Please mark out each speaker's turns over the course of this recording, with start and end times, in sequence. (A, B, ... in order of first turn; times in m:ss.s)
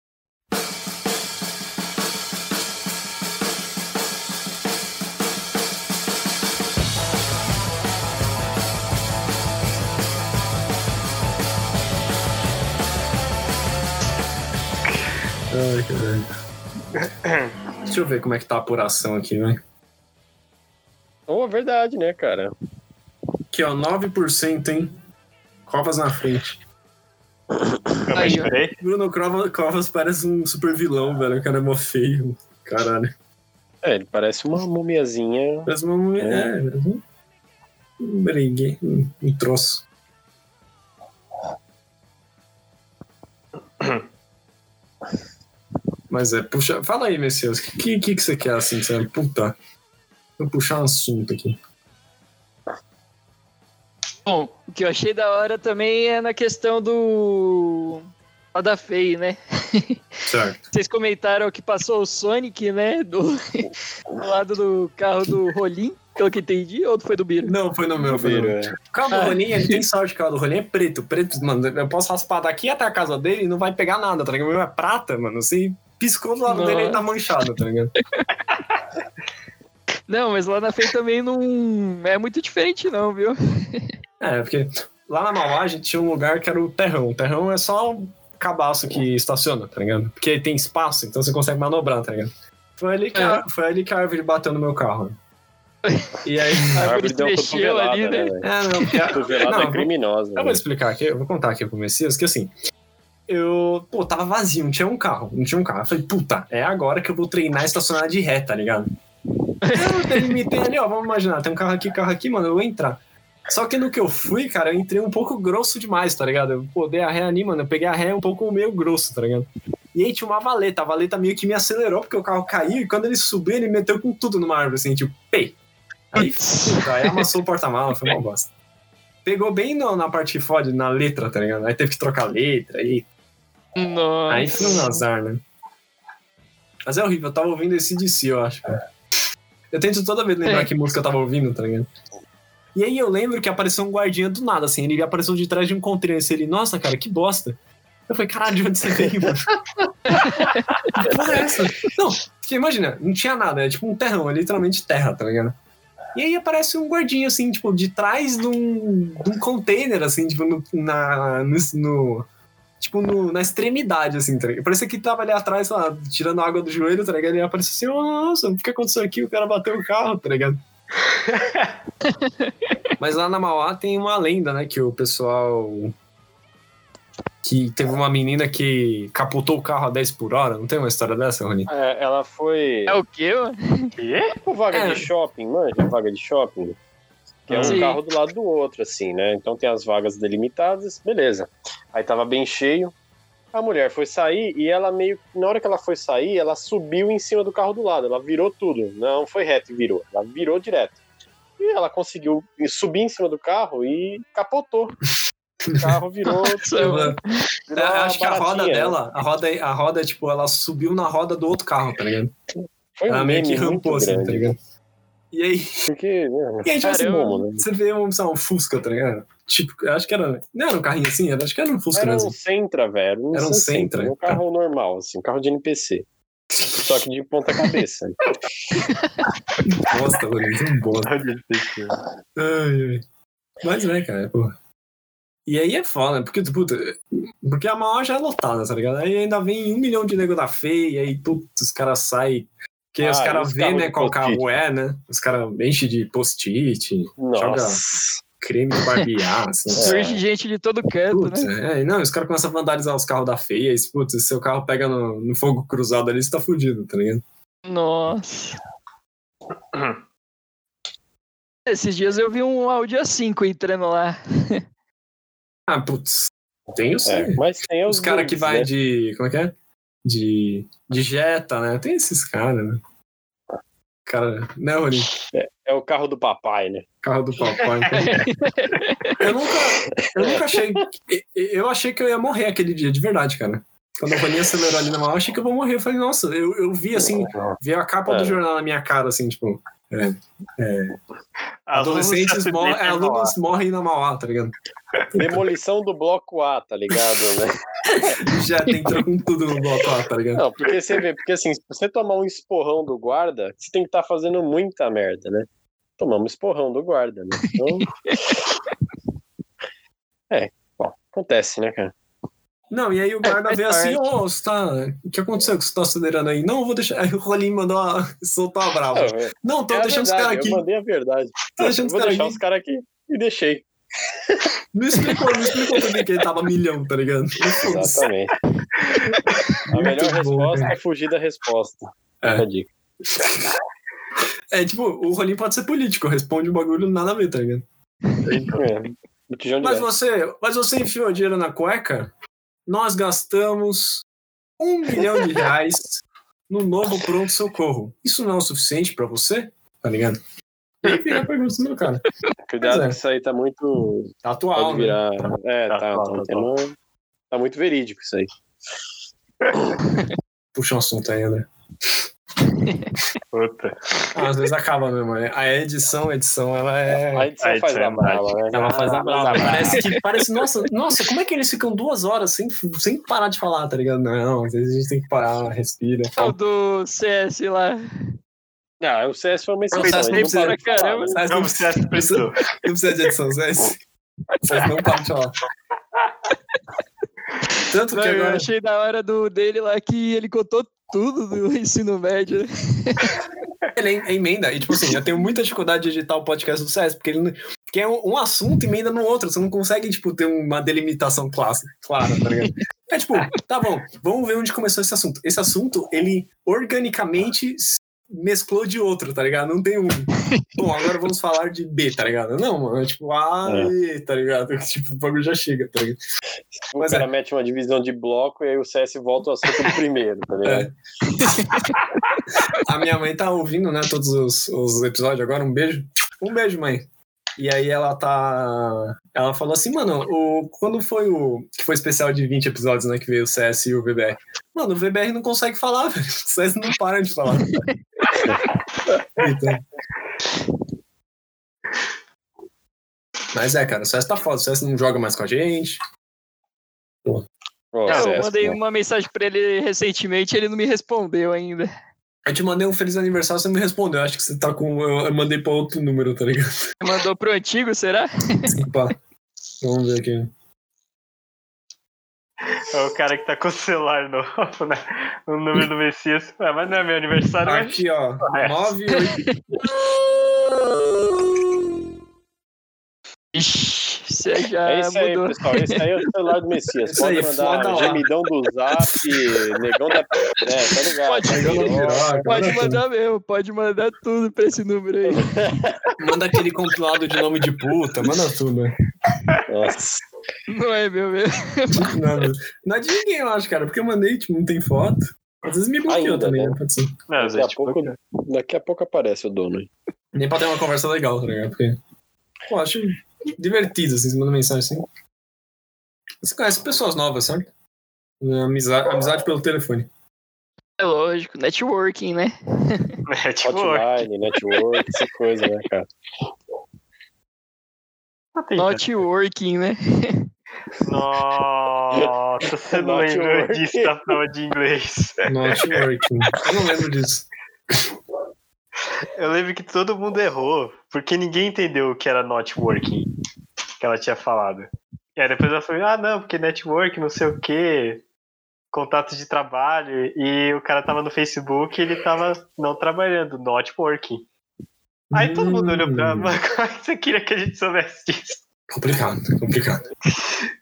0:15.5-0:16.3 A
0:17.0-0:17.5 B
0:17.8-0:19.6 A
0:21.3-0:22.5 C
0:23.5-0:25.0 A
0:25.6-0:26.6 A
0:28.0-0:28.8 B
0:28.1-0:28.5 D
0:28.8-0:33.1 A
0:33.8-0:36.5 C
0:35.6-0:37.0 A
0:38.0-0:39.8 A
0:46.1-0:49.6 A
0:50.4-0:51.6 A
0:54.2-1:00.0 D
1:00.2-1:00.6 A
1:00.7-1:07.5 D
1:07.4-1:17.9 A
1:08.0-1:08.7 C
1:09.1-1:09.8 D
1:16.5-1:17.0 D
1:20.1-1:23.9 D
1:24.2-1:35.2 A
1:33.1-1:33.4 D
1:35.9-1:36.1 D
1:36.2-1:36.9 A
1:36.7-1:39.0 D
1:36.8-1:38.5 C
1:38.4-1:42.5 A
1:39.0-1:40.6 C
1:43.3-1:48.9 A
1:49.6-1:50.2 D
1:49.7-2:05.6 A
2:06.1-2:08.5 A
2:06.2-2:07.3 D
2:09.2-2:13.1 A
2:13.8-2:15.0 D
2:14.3-2:15.4 A
2:16.8-2:18.8 A
2:19.7-2:21.9 A
2:22.7-2:29.6 A
2:30.1-2:31.1 D
2:30.9-2:35.6 A
2:36.1-2:42.3 A
2:42.8-2:50.6 A
2:51.3-2:51.7 B
2:53.0-2:55.9 A
2:57.4-3:01.7 A
3:01.7-3:03.0 C
3:02.9-3:03.9 D
3:04.0-3:04.4 B
3:04.4-3:06.8 C
3:04.7-3:05.1 A
3:07.5-3:12.9 C
3:07.5-3:07.8 B
3:07.6-3:08.0 D
3:13.5-3:21.0 C
3:21.6-3:25.0 C
3:25.7-3:26.0 A
3:25.7-3:27.0 C
3:26.3-3:27.2 D
3:26.8-3:27.2 A
3:27.7-3:29.0 C
3:27.7-3:32.3 A
3:33.0-3:34.6 C
3:33.1-3:34.6 A
3:35.3-3:35.9 A
3:35.9-3:37.6 C
3:36.6-3:42.4 A
3:36.8-3:37.4 D
3:41.9-3:46.1 C
3:43.3-3:44.4 A
3:46.5-3:47.0 A
3:46.8-3:48.3 C
3:48.9-3:49.2 D
3:49.7-3:51.1 A
3:51.0-3:52.0 B
3:52.4-3:53.0 A
3:53.6-3:54.5 A
3:55.4-4:07.8 A
4:03.0-4:04.4 C
4:07.2-4:08.2 C
4:08.4-4:10.0 A
4:09.7-4:10.2 C
4:09.8-4:11.5 D
4:11.1-4:17.2 A
4:17.7-4:18.6 D
4:19.7-4:20.0 B
4:21.7-4:24.6 D
4:25.7-4:32.8 A
4:27.0-4:28.7 C
4:34.0-4:35.1 A
4:35.3-4:36.9 C
4:37.0-4:38.3 A
4:37.9-4:39.2 D
4:39.2-4:51.0 A
4:40.0-4:40.8 C
4:47.1-4:47.6 C
4:48.1-4:48.4 C
4:51.7-4:53.3 B
4:51.7-4:54.5 A
4:55.1-4:55.4 A
4:55.1-4:57.5 C
4:57.9-5:00.4 A
5:00.3-5:05.5 C
5:06.0-5:08.4 C
5:07.4-5:08.1 D
5:10.3-5:11.9 C
5:12.7-5:20.6 A
5:13.2-5:14.1 D
5:18.9-5:23.7 C
5:21.6-5:22.4 A
5:24.7-5:28.1 A
5:27.5-5:28.4 C
5:29.7-5:30.7 A
5:29.7-5:32.7 C
5:33.1-5:33.4 A
5:34.5-5:37.6 A
5:38.4-5:39.9 C
5:39.6-5:42.1 A
5:42.7-5:44.0 A
5:44.6-5:50.2 A
5:50.8-5:52.0 A
5:52.4-5:56.7 C
5:52.6-5:53.0 A
5:54.2-5:55.0 A
5:55.7-5:56.5 B
5:57.3-5:58.3 C
6:00.5-6:01.5 A
6:03.3-6:04.1 B
6:04.1-6:07.3 A
6:07.1-6:09.8 C
6:07.4-6:09.8 B
6:08.5-6:16.4 A
6:16.1-6:17.8 D
6:18.8-6:21.2 C
6:19.7-6:23.8 A
6:19.7-6:21.2 D
6:21.2-6:22.4 B
6:24.4-6:25.4 A
6:27.7-6:28.5 A
6:27.9-6:33.2 D
6:33.7-6:56.0 A
6:53.4-6:53.7 C
6:56.6-7:00.7 C
6:56.8-6:57.1 A
7:00.4-7:00.7 A
7:02.5-7:17.6 A
7:19.1-7:19.6 A
7:23.3-7:25.8 A
7:27.7-7:28.6 C
7:27.9-7:31.7 D
7:32.2-7:36.7 A
7:36.8-7:38.5 D
7:38.5-7:38.9 A
7:39.6-7:40.3 A
7:42.6-7:48.7 B
7:47.4-7:49.6 A
7:49.1-7:49.4 D
7:53.3-7:55.8 D
7:54.6-8:02.6 C
7:56.8-7:58.0 A
8:01.0-8:05.3 D
8:01.2-8:02.8 A
8:05.1-8:05.9 C
8:06.0-8:08.8 A
8:09.5-8:10.0 C
8:10.5-8:12.0 D
8:11.7-8:17.0 A
8:15.9-8:16.6 C
8:17.1-8:17.9 B
8:17.2-8:19.7 C
8:20.1-8:21.8 A
8:22.5-8:24.8 A
8:26.2-8:27.5 A
8:28.2-8:29.9 A
8:30.8-8:33.0 D
8:33.1-8:34.0 B
8:33.4-8:35.9 C
8:38.4-8:38.9 B
8:38.6-8:40.3 D
8:40.8-8:45.8 B
8:42.7-8:43.9 C
8:45.2-8:47.3 A
8:49.1-8:53.1 B
8:53.8-8:58.0 B
8:58.7-9:04.2 B
9:05.1-9:06.3 A
9:05.1-9:08.4 B
9:08.7-9:09.8 A